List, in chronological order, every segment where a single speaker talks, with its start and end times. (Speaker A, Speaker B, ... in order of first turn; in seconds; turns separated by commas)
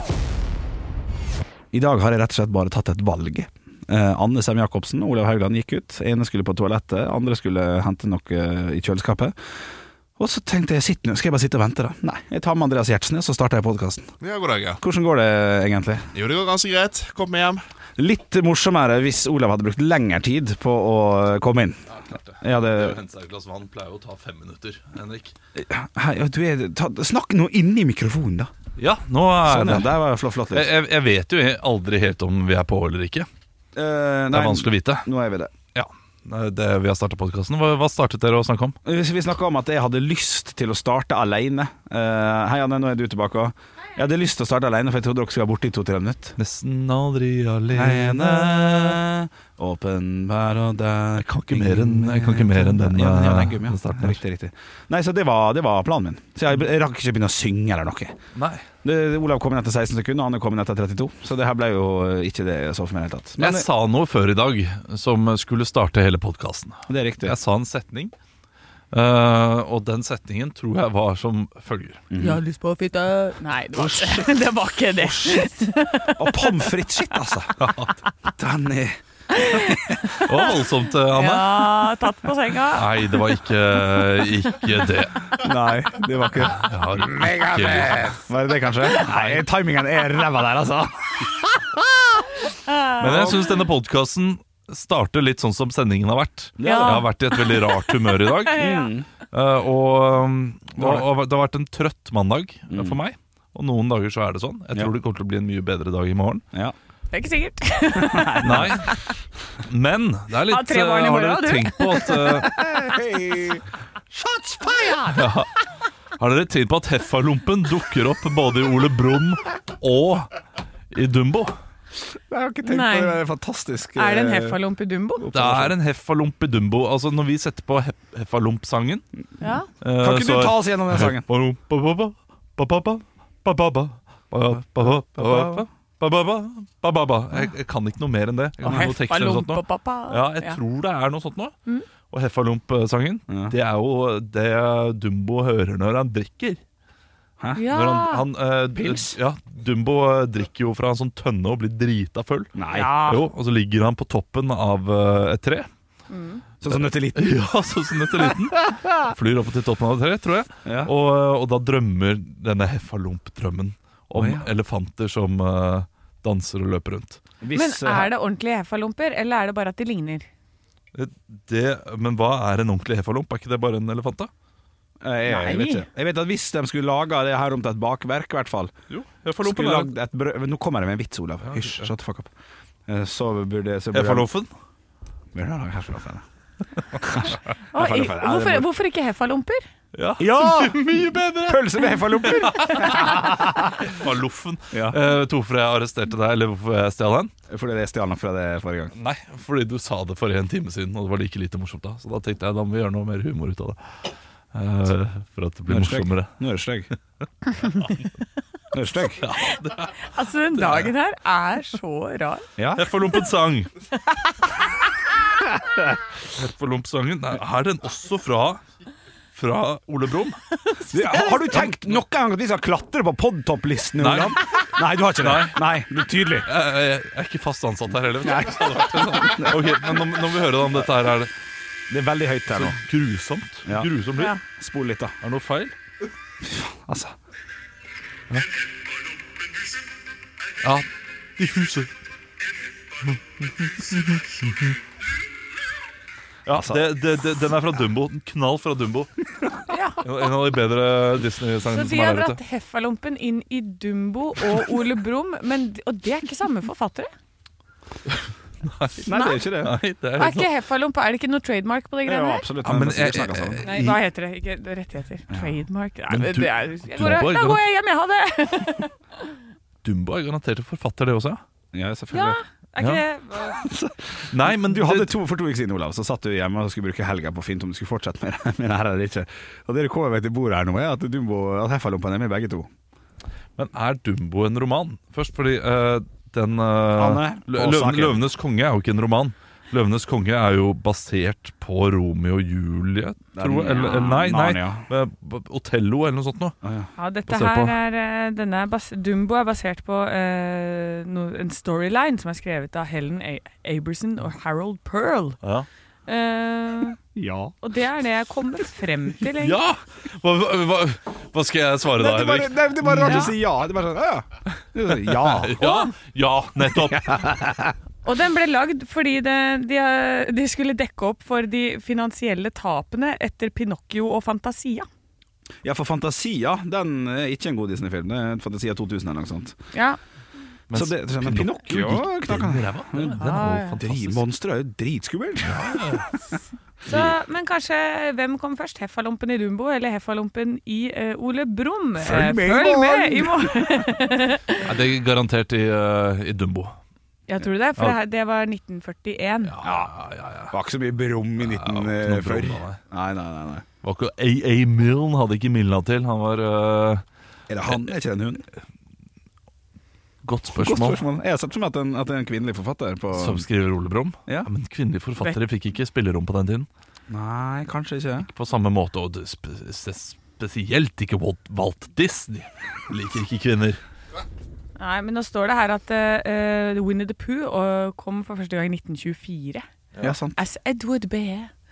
Speaker A: 1.7-9.4, Speaker A: 10.2-14.1, Speaker B: 14.2-14.8, Speaker A: 14.8-16.1, Speaker B: 16.1-17.6, Speaker A: 18.0-21.8, Speaker C: 21.9-25.4, Speaker A: 22.4-23.0, Speaker A: 25.6-28.5, Speaker C: 28.8-30.0, Speaker A: 29.4-30.7, Speaker C: 30.5-33.3, Speaker A: 33.7-35.5, Speaker C: 34.3-35.1, Speaker C: 35.7-38.8, Speaker A: 38.9-46.4, Speaker C: 46.4-49.0, Speaker A: 47.7-58.2, Speaker C: 51.2-54.2, Speaker C: 58.4-58.7, Speaker A: 58.8-63.7, Speaker C: 63.4-68.1, Speaker A: 66.9-67.4, Speaker C: 68.9-72.0, Speaker A: 72.1-72.4, Speaker D: 72.2-76.0, Speaker A: 73.8-74.4, Speaker A: 75.0-75.5, Speaker A: 76.0-80.2, Speaker C: 77.6-77.9, Speaker C: 80.2-81.9, Speaker D: 81.2-82.8, Speaker C: 82.8-85.4, Speaker A: 85.3-91.8, Speaker C: 86.5-88.2, Speaker C: 89.0-89.4, Speaker C: 93.0-106.4, Speaker A: 93.1-93.4, Speaker A: 96.6-97.1, Speaker D: 96.6-97.0, Speaker A: 98.5-99.0, Speaker A: 100.8-101.1, Speaker A: 102.7-103.0, Speaker D: 107.1-108.4, Speaker A: 108.0-108.8, Speaker C: 108.4-109.0, Speaker C: 109.6-112.5, Speaker D: 110.5-112.0, Speaker A: 112.4-115.3, Speaker C: 115.1-115.5, Speaker C: 116.2-120.3, Speaker C: 120.9-121.6, Speaker A: 122.3-124.6, Speaker D: 122.6-123.2, Speaker D: 124.0-125.3, Speaker A: 125.2-125.8, Speaker C: 125.3-129.0, Speaker D: 129.4-129.7, Speaker C: 129.8-146.6, Speaker A: 130.0-131.3, Speaker A: 134.8-135.7, Speaker A: 138.6-138.9, Speaker D: 138.6-140.6, Speaker A: 143.3-143.6, Speaker A: 147.4-147.7, Speaker D: 147.6-148.3, Speaker C: 147.7-155.7, Speaker A: 148.8-149.2, Speaker A: 152.6-153.0, Speaker D: 152.7-153.2, Speaker D: 156.1-156.4, Speaker A: 156.6-157.5, Speaker C: 156.7-167.2, Speaker A: 158.2-158.9, Speaker A: 160.7-160.9, Speaker A: 164.1-164.5, Speaker A: 167.4-168.1, Speaker D: 167.5-170.3, Speaker C: 170.9-174.3, Speaker A: 175.0-178.7, Speaker D: 175.3-175.8, Speaker C: 178.9-179.9, Speaker A: 179.4-182.3, Speaker C: 181.4-181.9, Speaker A: 182.9-184.3, Speaker C: 183.9-184.5, Speaker A: 185.3-186.2, Speaker A: 187.0-188.7, Speaker D: 187.7-189.6, Speaker C: 189.9-197.3, Speaker A: 190.2-190.9, Speaker A: 191.4-193.9, Speaker A: 194.7-195.0, Speaker A: 197.5-198.9, Speaker C: 198.9-203.9, Speaker C: 204.5-206.3, Speaker A: 205.7-206.9, Speaker A: 208.7-209.2, Speaker C: 209.2-210.0, Speaker D: 210.2-212.4, Speaker C: 210.6-210.9, Speaker A: 212.6-212.9, Speaker C: 212.8-213.7, Speaker C: 216.3-218.6, Speaker C: 219.3-220.4, Speaker A: 220.9-226.5, Speaker C: 221.1-222.0, Speaker C: 224.0-224.4, Speaker C: 225.2-225.7, Speaker C: 226.4-231.3, Speaker A: 228.2-230.0, Speaker A: 231.9-232.8, Speaker C: 232.5-234.4, Speaker A: 233.7-233.9, Speaker A: 234.6-235.2, Speaker C: 235.2-235.8, Speaker A: 236.4-237.2, Speaker C: 241.4-241.9, Speaker C: 243.1-244.7, Speaker C: 246.5-249.3, Speaker A: 246.5-246.9, Speaker D: 249.7-250.1, Speaker C: 250.0-252.4, Speaker D: 251.7-257.1, Speaker C: 258.6-259.0, Speaker A: 259.0-259.8, Speaker D: 259.1-259.4, Speaker C: 259.6-260.5, Speaker D: 260.2-262.5, Speaker A: 262.1-263.8, Speaker C: 262.6-264.0, Speaker D: 263.6-268.9, Speaker A: 265.3-265.6, Speaker C: 266.1-267.6, Speaker C: 269.8-271.4, Speaker A: 271.7-272.4, Speaker D: 272.1-273.6, Speaker C: 272.8-273.0, Speaker A: 273.5-282.7, Speaker C: 274.3-275.1, Speaker C: 283.6-296.6, Speaker A: 286.9-288.2, Speaker A: 293.4-294.9, Speaker A: 296.6-296.9, Speaker D: 297.0-305.4, Speaker C: 297.3-297.8, Speaker C: 305.4-305.7, Speaker D: 306.1-307.0, Speaker A: 307.2-307.6, Speaker D: 307.6-309.6, Speaker C: 309.3-313.4, Speaker A: 311.9-315.8, Speaker C: 314.9-317.3, Speaker D: 315.6-315.9, Speaker A: 316.8-317.7, Speaker D: 318.0-324.8, Speaker A: 325.6-329.6, Speaker C: 330.7-334.2, Speaker A: 330.7-336.1, Speaker D: 333.2-333.7, Speaker C: 335.4-336.1, Speaker C: 336.9-337.1, Speaker D: 336.9-344.7, Speaker A: 342.0-343.9, Speaker C: 344.6-346.8, Speaker D: 347.3-349.6, Speaker C: 349.4-350.5, Speaker A: 349.6-349.9, Speaker A: 350.5-353.7, Speaker C: 351.4-352.8, Speaker C: 353.8-357.0, Speaker A: 357.5-358.4, Speaker C: 360.2-361.0, Speaker A: 360.6-363.5, Speaker C: 363.1-366.7, Speaker A: 367.1-368.3, Speaker C: 368.3-373.8, Speaker D: 374.8-379.6, Speaker A: 380.0-380.4, Speaker D: 380.4-381.5